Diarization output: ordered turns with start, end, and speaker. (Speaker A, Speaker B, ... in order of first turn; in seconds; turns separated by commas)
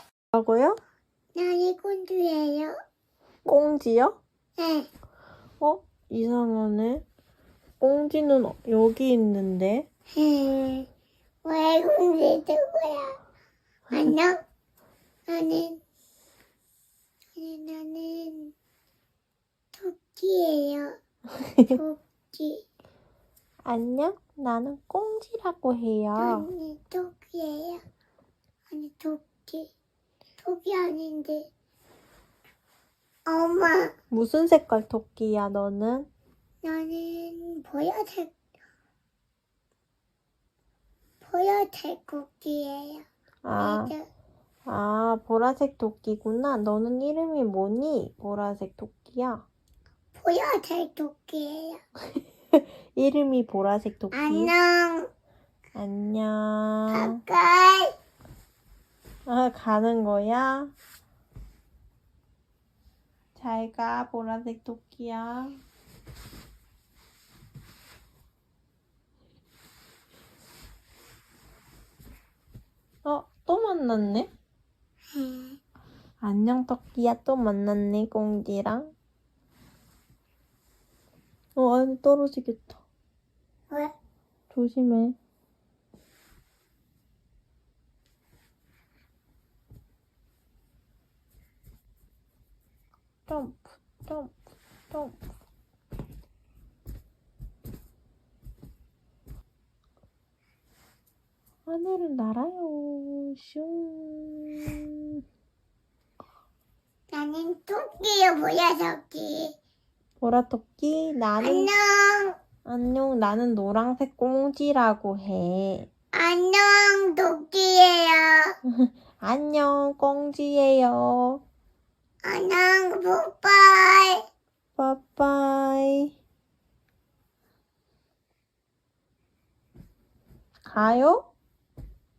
Speaker A: 0.3-0.8, Speaker B: 1.4-2.7, Speaker A: 3.5-4.2, Speaker B: 4.6-4.9, Speaker A: 5.6-7.0, Speaker A: 7.8-9.9, Speaker B: 10.1-10.9, Speaker B: 11.4-13.2, Speaker B: 13.9-14.4, Speaker B: 15.3-15.8, Speaker B: 17.4-18.5, Speaker B: 19.7-21.0, Speaker B: 21.7-22.6, Speaker A: 23.6-26.5, Speaker B: 26.2-27.8, Speaker B: 28.7-29.7, Speaker B: 30.4-31.5, Speaker B: 33.3-33.9, Speaker A: 34.1-36.1, Speaker B: 36.6-38.3, Speaker B: 41.2-44.1, Speaker A: 43.4-43.9, Speaker A: 44.7-49.5, Speaker B: 50.2-51.8, Speaker A: 52.5-54.5, Speaker B: 54.1-55.1, Speaker A: 55.8-57.2, Speaker B: 56.9-58.0, Speaker A: 59.3-60.7, Speaker A: 63.4-65.6, Speaker A: 73.0-74.3, Speaker B: 75.1-75.6, Speaker A: 76.2-78.9, Speaker A: 81.6-82.8, Speaker A: 84.5-85.2, Speaker A: 93.3-94.3, Speaker A: 94.9-95.2, Speaker A: 101.7-105.2, Speaker B: 107.1-109.5, Speaker A: 110.2-111.7, Speaker B: 111.4-112.4, Speaker A: 112.7-115.9, Speaker B: 116.1-118.6, Speaker A: 118.7-121.4, Speaker B: 122.2-124.2, Speaker A: 124.8-126.1, Speaker A: 130.7-131.3